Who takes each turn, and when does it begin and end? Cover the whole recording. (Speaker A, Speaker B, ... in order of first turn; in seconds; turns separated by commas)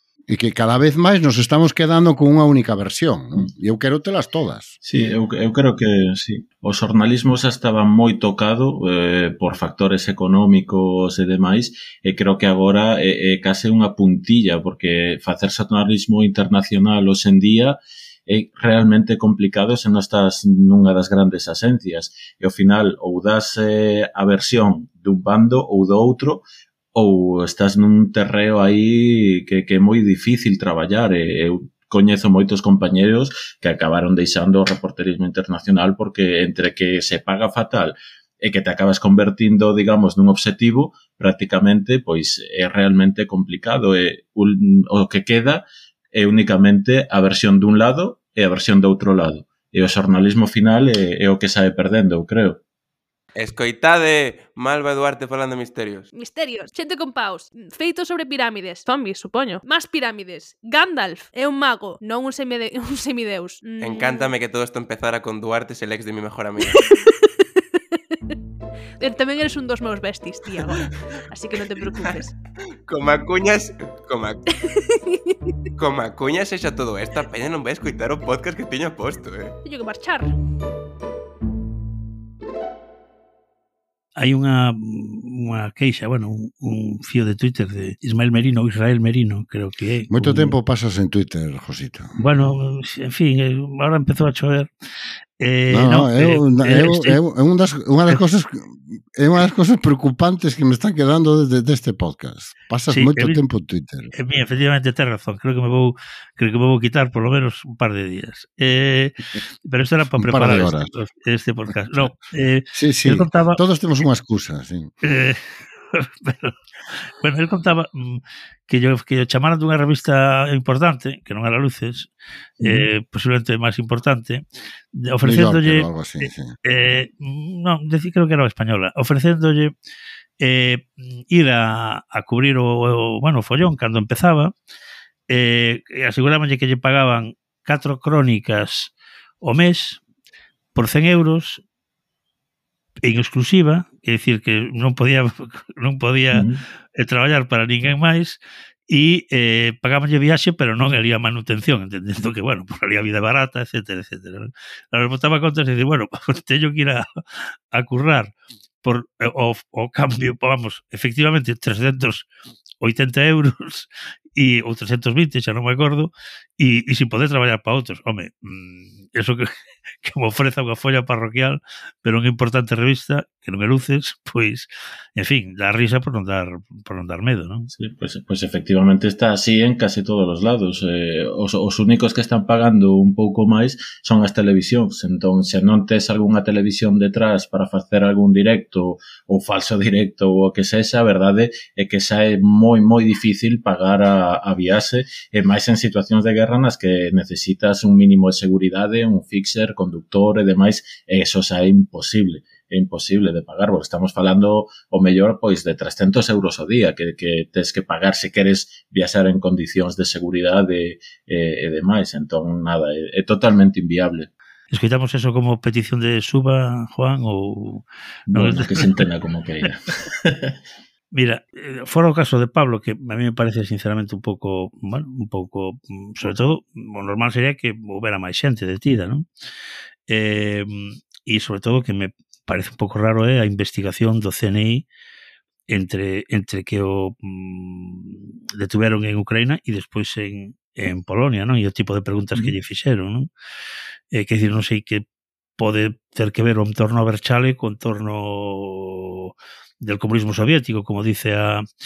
Speaker A: 0.3-4.8, Speaker B: 4.8-26.4, Speaker B: 26.9-52.6, Speaker C: 53.4-56.1, Speaker D: 56.1-64.3, Speaker C: 63.8-66.8, Speaker D: 66.7-67.3, Speaker D: 69.0-72.3, Speaker C: 70.6-70.9, Speaker C: 71.9-72.1, Speaker C: 72.9-74.4, Speaker D: 74.7-75.3, Speaker C: 75.8-79.5, Speaker D: 79.6-80.3, Speaker E: 84.2-90.5, Speaker A: 90.1-92.2, Speaker E: 92.2-94.7, Speaker E: 95.4-97.2, Speaker A: 95.7-104.1, Speaker E: 102.9-103.4, Speaker E: 104.2-113.6, Speaker A: 110.2-110.9, Speaker A: 112.7-114.9, Speaker E: 115.0-115.4, Speaker E: 115.9-116.5, Speaker E: 117.2-122.1, Speaker A: 122.6-122.9, Speaker E: 122.6-129.7, Speaker A: 125.2-126.5, Speaker E: 130.4-134.5, Speaker E: 135.3-140.0, Speaker E: 140.8-141.6, Speaker E: 143.0-146.4, Speaker B: 146.3-146.6, Speaker E: 147.0-158.3, Speaker E: 158.8-162.3, Speaker E: 162.8-169.5, Speaker E: 170.0-177.7, Speaker B: 177.7-214.3, Speaker E: 214.7-218.8, Speaker B: 218.3-220.5, Speaker E: 221.1-229.3, Speaker E: 230.1-234.8, Speaker E: 235.7-243.3, Speaker E: 244.1-245.1, Speaker E: 245.6-251.7